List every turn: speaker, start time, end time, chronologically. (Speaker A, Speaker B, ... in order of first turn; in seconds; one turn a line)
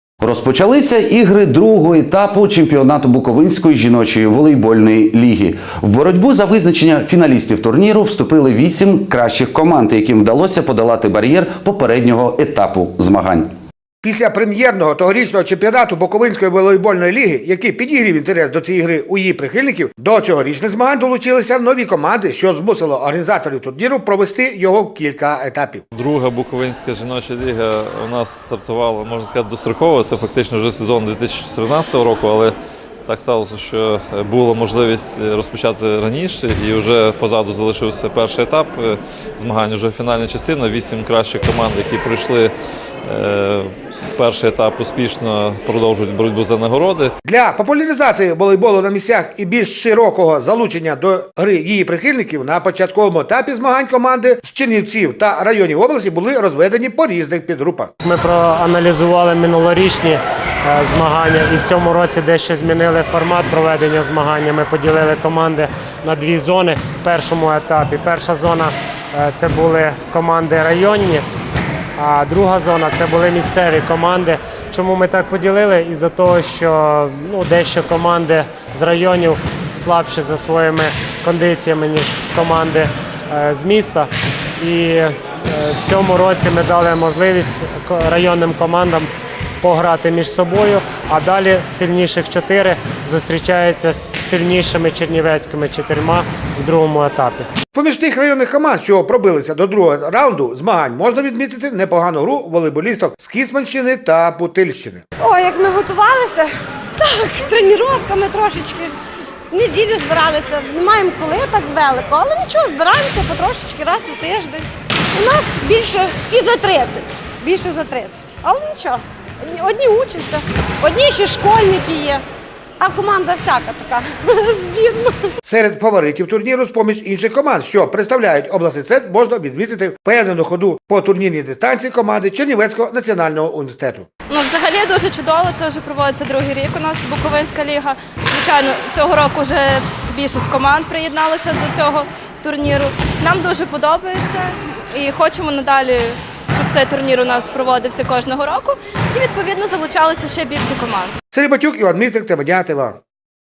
Speaker A: 0.2-13.5
Speaker B: 14.0-25.8
Speaker C: 25.9-32.5
Speaker C: 33.1-42.5
Speaker C: 43.1-47.1
Speaker B: 47.2-57.9
Speaker D: 58.0-71.2
Speaker D: 72.0-89.1
Speaker D: 89.6-97.5
Speaker B: 97.7-105.0
Speaker E: 105.2-108.9
Speaker E: 109.5-122.2
Speaker E: 122.8-125.3
Speaker B: 125.5-134.1
Speaker F: 134.3-151.2
Speaker B: 151.3-153.0